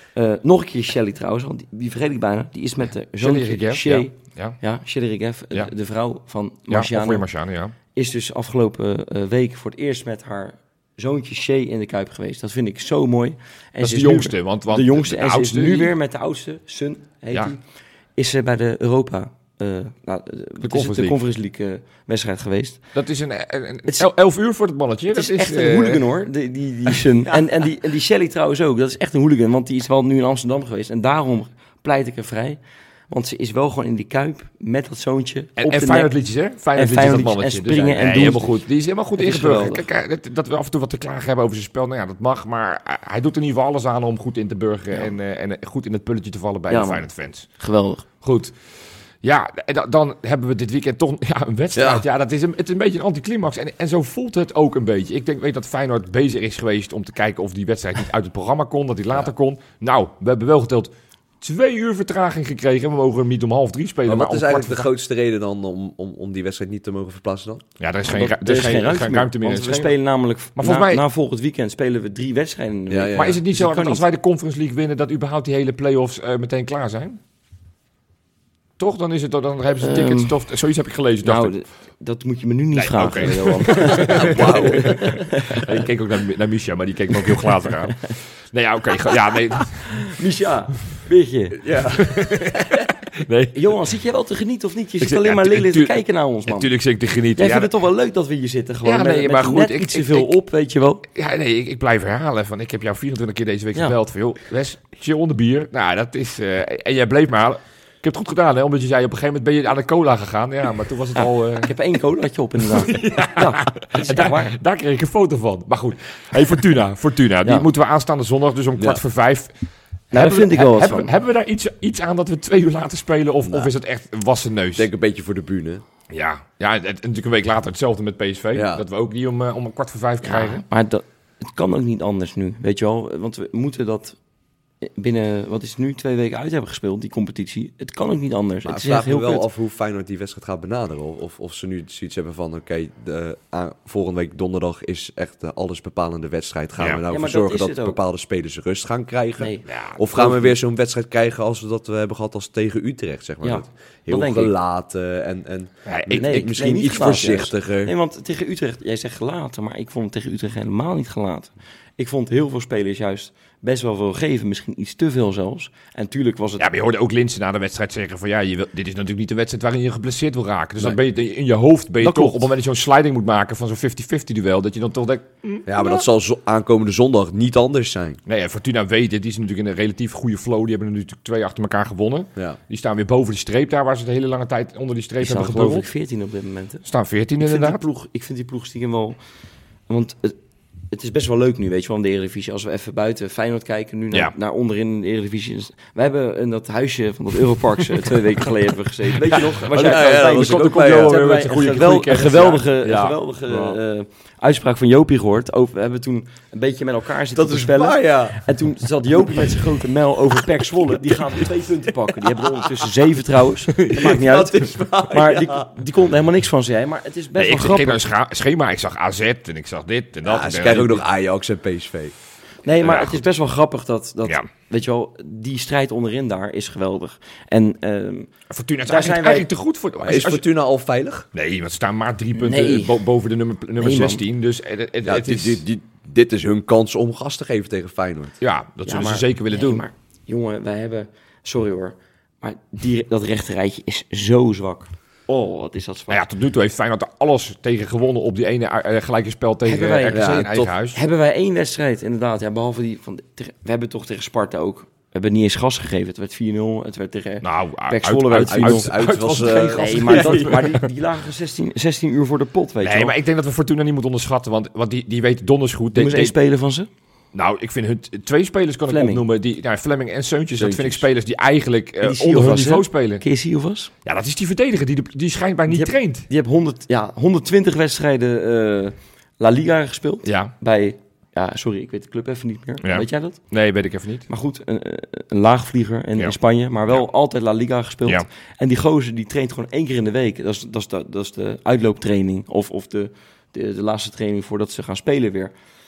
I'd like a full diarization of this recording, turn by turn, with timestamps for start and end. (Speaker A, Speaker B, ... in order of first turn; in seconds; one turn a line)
Speaker A: 0.1-7.2
Speaker B: 3.2-4.6
Speaker B: 6.7-7.7
Speaker A: 7.9-17.6
Speaker B: 13.8-15.9
Speaker A: 18.1-22.8
Speaker B: 20.6-21.2
Speaker B: 22.9-26.1
Speaker A: 25.1-36.1
Speaker B: 35.6-47.5
Speaker A: 36.7-38.6
Speaker A: 39.1-39.9
Speaker A: 46.7-47.0
Speaker A: 47.6-48.0
Speaker B: 48.2-48.5
Speaker B: 49.2-64.9
Speaker C: 51.7-52.0
Speaker C: 64.0-67.6
Speaker B: 67.8-69.9
Speaker A: 68.1-74.0
Speaker B: 70.5-71.0
Speaker C: 72.9-73.4
Speaker B: 73.1-77.2
Speaker B: 78.8-81.5
Speaker A: 79.8-80.4
Speaker A: 81.2-85.8
Speaker B: 82.7-90.1
Speaker C: 83.9-85.0
Speaker A: 90.1-91.6
Speaker C: 91.6-92.3
Speaker B: 92.0-93.7
Speaker A: 93.5-96.7
Speaker B: 95.0-97.7
Speaker A: 97.3-101.0
Speaker B: 98.8-100.3
Speaker B: 101.1-111.7
Speaker A: 111.2-114.6
Speaker B: 112.6-119.5
Speaker A: 120.1-121.1
Speaker B: 120.1-124.9
Speaker C: 124.8-125.8
Speaker B: 126.1-130.6
Speaker C: 128.5-128.8
Speaker A: 130.2-134.2
Speaker A: 134.8-139.4
Speaker C: 138.6-157.9
Speaker A: 147.1-148.0
Speaker A: 149.4-149.6
Speaker B: 149.7-150.5
Speaker A: 153.4-154.5
Speaker B: 155.8-156.4
Speaker A: 156.1-166.7
Speaker B: 166.6-176.0
Speaker A: 172.0-172.4
Speaker C: 175.7-178.2
Speaker B: 178.2-185.9
Speaker A: 185.2-186.8
Speaker B: 186.8-187.8
Speaker A: 187.4-189.2
Speaker A: 189.9-190.4
Speaker A: 190.9-218.0
Speaker B: 199.2-203.2
Speaker C: 199.4-201.6
Speaker C: 207.3-208.4
Speaker B: 213.8-214.1
Speaker C: 213.9-215.7
Speaker B: 217.3-221.1
Speaker C: 220.2-222.1
Speaker A: 222.6-228.3
Speaker B: 222.8-223.2
Speaker B: 228.5-230.4
Speaker A: 228.8-229.5
Speaker C: 230.0-231.3
Speaker B: 231.3-235.6
Speaker A: 232.3-233.0
Speaker A: 233.8-234.2
Speaker C: 235.0-238.3
Speaker B: 238.4-239.8
Speaker A: 238.8-246.2
Speaker B: 246.1-251.0
Speaker A: 249.6-250.2
Speaker C: 250.1-250.7
Speaker A: 250.9-258.9
Speaker B: 257.4-260.9
Speaker C: 258.4-260.6
Speaker A: 259.7-263.1
Speaker B: 262.8-266.4
Speaker A: 265.9-266.9
Speaker B: 267.3-273.2
Speaker A: 268.9-269.2
Speaker C: 270.6-271.0
Speaker A: 272.0-273.9
Speaker B: 274.0-276.3
Speaker A: 275.7-283.4
Speaker B: 280.2-280.5
Speaker B: 282.8-284.2
Speaker A: 284.3-295.5